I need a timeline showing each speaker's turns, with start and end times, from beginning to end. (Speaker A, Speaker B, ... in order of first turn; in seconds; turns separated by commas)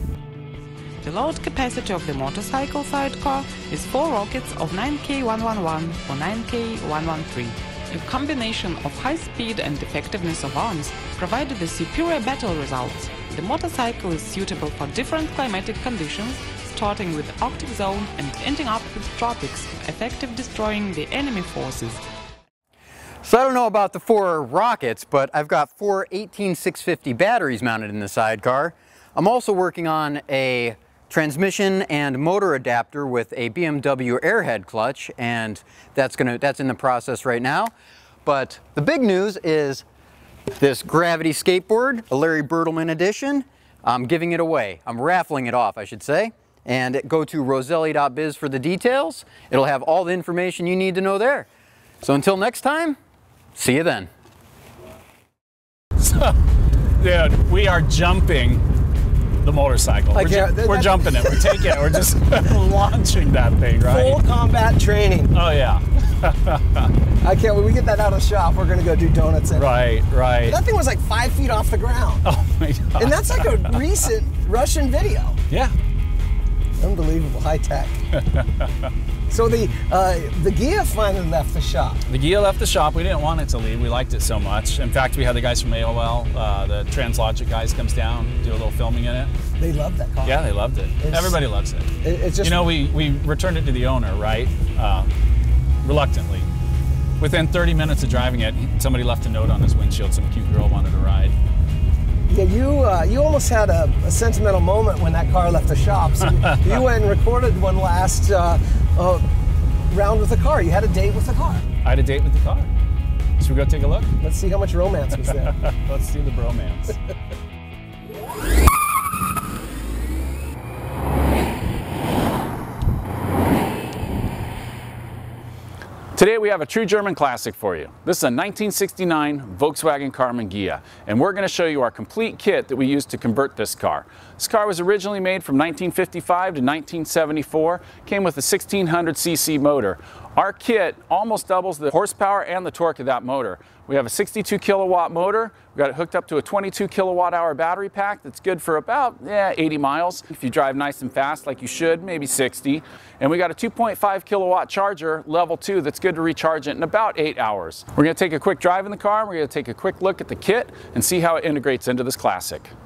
Speaker A: 1.0-22.1, Speaker B: 23.2-37.7, Speaker B: 38.2-39.8, Speaker B: 40.6-51.5, Speaker B: 52.0-53.0, Speaker B: 53.6-54.1, Speaker C: 56.0-56.4, Speaker C: 57.0-58.6, Speaker C: 59.4-64.2, Speaker D: 60.1-62.0, Speaker D: 63.9-65.3, Speaker C: 65.3-66.9, Speaker D: 67.2-69.7, Speaker C: 69.5-70.6, Speaker D: 70.5-72.2, Speaker C: 72.2-73.7, Speaker D: 73.0-75.4, Speaker D: 76.8-78.0, Speaker C: 78.1-78.7, Speaker D: 79.3-82.0, Speaker C: 82.1-89.3, Speaker D: 89.6-90.4, Speaker C: 90.2-91.9, Speaker D: 91.0-91.4, Speaker D: 92.0-92.7, Speaker C: 92.4-95.1, Speaker C: 95.8-96.5, Speaker C: 97.2-101.3, Speaker D: 102.3-109.2, Speaker C: 106.2-106.8, Speaker D: 109.9-111.7, Speaker C: 111.8-112.7, Speaker C: 113.4-114.1, Speaker D: 114.2-115.5, Speaker C: 115.4-117.0, Speaker C: 126.2-162.7